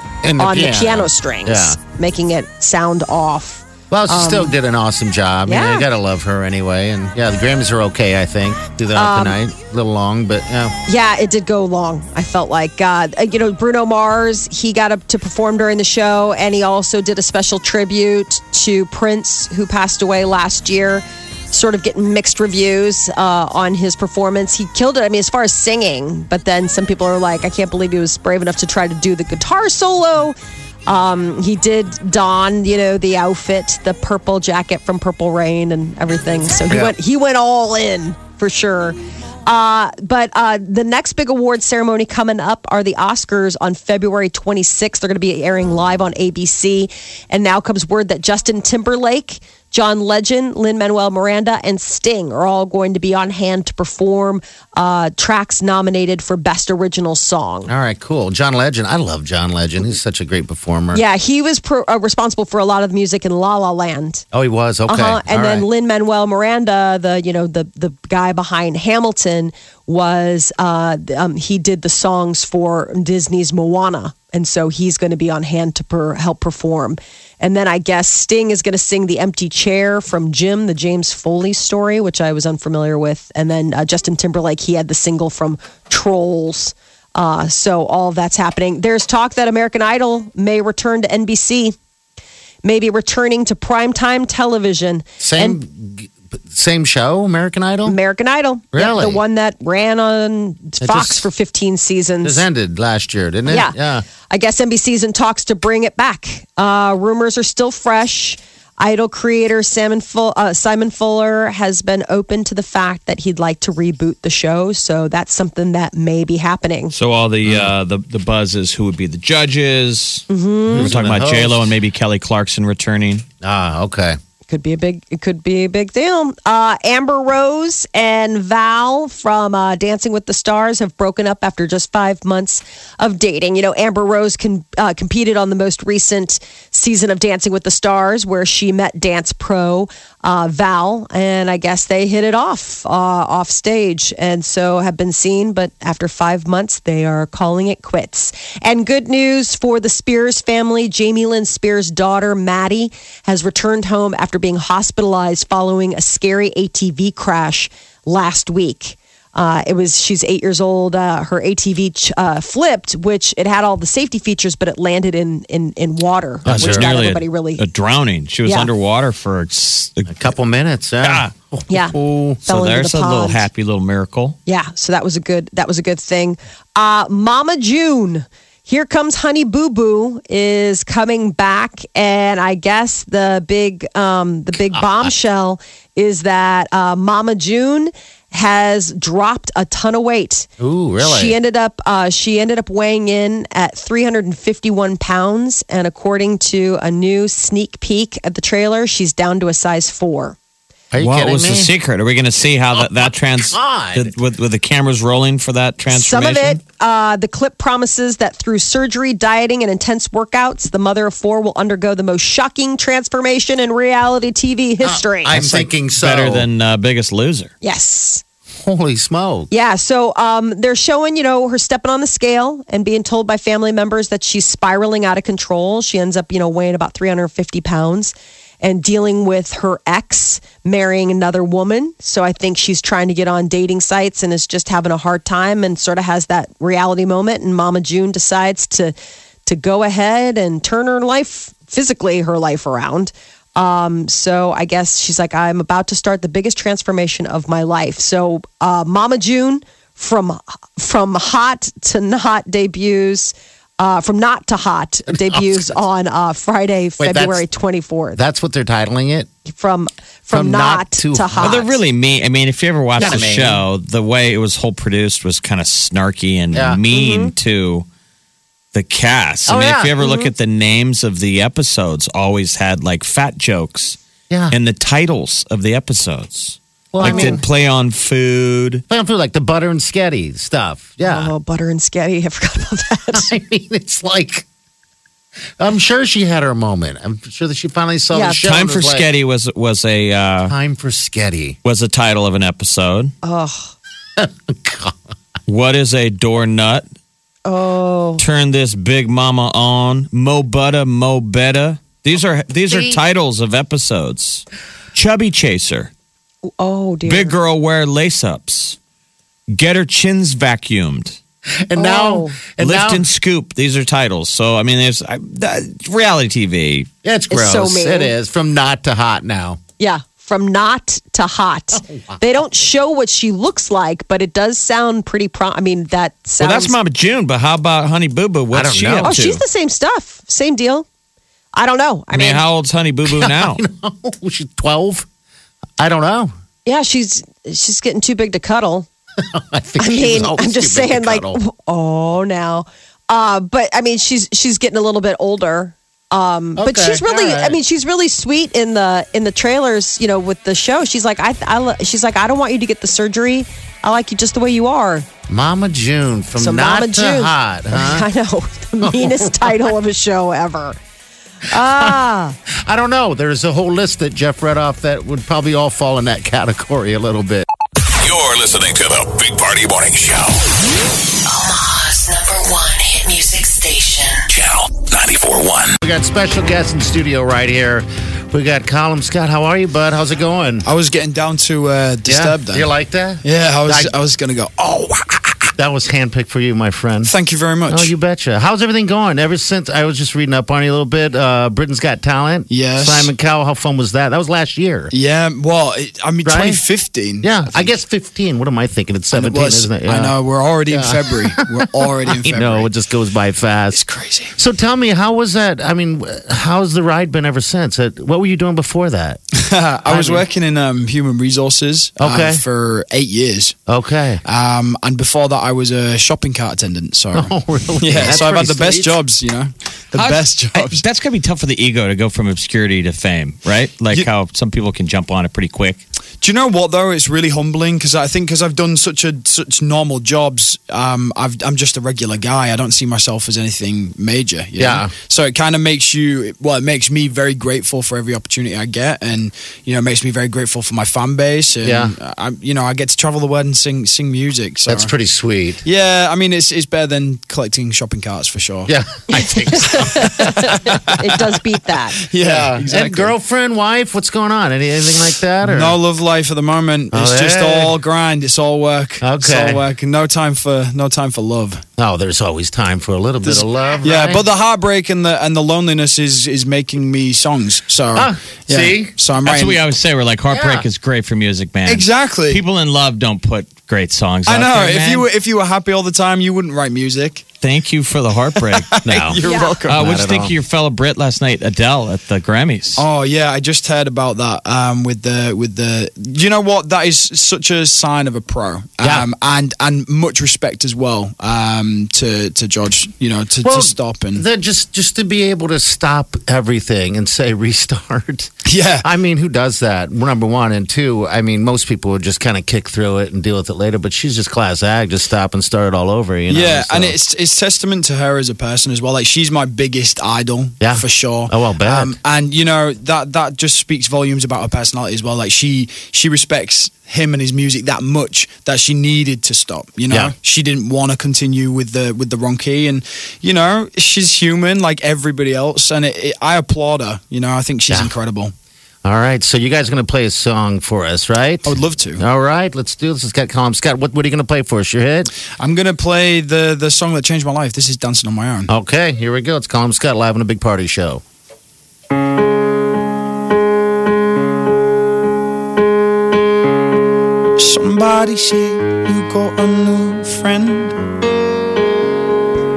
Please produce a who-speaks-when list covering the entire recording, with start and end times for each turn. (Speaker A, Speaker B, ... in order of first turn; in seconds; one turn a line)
Speaker A: 0.2-1.8
Speaker B: 0.4-4.5
Speaker A: 3.9-10.8
Speaker B: 5.5-5.9
Speaker B: 8.9-9.4
Speaker B: 10.9-30.4
Speaker B: 30.9-57.7
Speaker A: 36.7-37.0
Speaker A: 57.7-61.0
Speaker B: 60.9-64.2
Speaker A: 64.3-65.7
Speaker B: 64.9-91.8
Speaker B: 92.6-95.6
Speaker A: 95.2-98.0
Speaker B: 97.9-102.5
Speaker A: 98.7-99.2
Speaker A: 100.8-101.3
Speaker A: 102.2-104.1
Speaker B: 103.5-103.8
Speaker B: 104.3-116.9
Speaker C: 116.9-123.2
Speaker A: 117.5-117.7
Speaker B: 120.3-120.9
Speaker A: 120.7-121.7
Speaker A: 123.4-124.2
Speaker B: 124.5-167.6
Speaker A: 166.4-166.9
Speaker C: 166.5-170.2
Speaker B: 168.4-168.7
Speaker A: 170.1-172.4
Speaker C: 171.0-171.3
Speaker B: 171.7-173.4
Speaker C: 172.5-174.4
Speaker B: 174.5-190.5
Speaker A: 190.6-191.4
Speaker B: 191.0-200.4
Speaker A: 200.9-201.7
Speaker C: 201.0-206.6
Speaker A: 202.8-204.1
Speaker B: 205.9-215.4
Speaker A: 214.8-216.5
Speaker C: 215.3-217.5
Speaker B: 217.6-218.2
Speaker A: 218.6-219.5
Speaker B: 219.5-238.9
Speaker B: 239.5-258.2
Speaker A: 255.1-255.7
Speaker A: 257.0-257.4
Speaker A: 258.2-259.3
Speaker B: 259.5-261.7
Speaker A: 260.3-261.7
Speaker C: 261.4-267.9
Speaker A: 263.0-263.6
Speaker A: 266.5-266.8
Speaker B: 266.9-267.3
Speaker C: 268.7-274.0
Speaker A: 269.5-270.0
Speaker B: 270.0-270.3
Speaker A: 274.3-274.6
Speaker C: 274.5-278.8
Speaker A: 276.9-277.4
Speaker B: 277.0-277.4
Speaker A: 278.9-281.3
Speaker B: 281.0-283.3
Speaker A: 283.1-284.5
Speaker A: 285.6-289.1
Speaker B: 288.1-288.4
Speaker C: 288.4-290.5
Speaker A: 290.5-291.6
Speaker C: 291.6-293.1
Speaker B: 293.2-293.7
Speaker A: 294.2-295.0
Speaker C: 295.5-296.9
Speaker B: 297.5-298.2
Speaker C: 298.2-305.9
Speaker B: 302.7-302.9
Speaker B: 306.6-307.4
Speaker C: 307.1-308.8
Speaker C: 309.5-311.2
Speaker A: 311.7-313.1
Speaker B: 311.8-312.4
Speaker C: 312.6-316.9
Speaker A: 317.0-319.6
Speaker B: 317.3-318.1
Speaker B: 319.8-326.8
Speaker A: 321.8-322.2
Speaker C: 326.4-329.4
Speaker A: 328.5-329.1
Speaker B: 329.0-330.9
Speaker B: 331.6-332.4
Speaker C: 332.1-333.6
Speaker A: 333.1-335.1
Speaker A: 335.8-336.3
Speaker B: 336.6-338.9
Speaker A: 339.2-341.4
Speaker B: 339.8-355.1
Speaker A: 346.6-347.6
Speaker A: 355.3-358.1
Speaker B: 356.4-360.8
Speaker A: 358.8-359.7
Speaker B: 361.5-362.4
Speaker A: 361.6-367.5
Speaker D: 367.9-370.4
Speaker E: 371.3-374.3
Speaker D: 374.3-375.8
Speaker A: 375.8-380.7
Speaker F: 380.6-382.7
Speaker A: 382.1-383.9
Speaker F: 383.2-385.4
Speaker A: 385.6-387.1
Speaker F: 387.0-387.9
Speaker A: 387.7-394.9
Speaker F: 392.5-393.1
Speaker F: 394.9-397.8
Speaker A: 396.2-396.6
Speaker A: 397.2-400.2
Speaker F: 399.1-402.7
Speaker A: 400.7-403.8
Speaker F: 403.7-404.3
Speaker A: 404.3-409.2
Speaker F: 409.3-413.6
Speaker A: 409.9-410.2
Speaker A: 412.0-412.4
Speaker A: 413.7-414.2
Speaker F: 414.2-420.8
Speaker A: 417.1-419.0
Speaker C: 419.9-425.8
Speaker F: 426.2-444.9
Speaker A: 434.6-434.9
Speaker A: 441.6-441.9
Speaker A: 444.7-445.6
Speaker F: 445.6-448.7
Speaker A: 448.7-450.8
Speaker B: 449.1-452.0
Speaker F: 450.3-451.0
Speaker F: 452.0-453.1
Speaker A: 452.2-455.8
Speaker F: 455.4-461.6
Speaker A: 456.9-457.8
Speaker A: 459.0-459.6
Speaker A: 461.8-464.2
Speaker F: 463.2-469.7
Speaker A: 467.9-468.9
Speaker C: 469.2-475.1
Speaker A: 470.3-470.6
Speaker F: 471.7-472.4
Speaker F: 474.3-477.4
Speaker C: 477.4-478.7
Speaker F: 478.4-479.9
Speaker A: 478.9-480.4
Speaker B: 479.2-479.6
Speaker C: 479.7-482.8
Speaker F: 482.8-494.2
Speaker A: 488.8-489.1
Speaker A: 493.4-507.0
Speaker F: 498.4-498.9
Speaker F: 506.3-528.3
Speaker A: 510.6-512.0
Speaker A: 528.8-535.1
Speaker F: 531.4-532.0
Speaker F: 535.4-538.5
Speaker A: 538.5-541.0
Speaker F: 547.4-550.8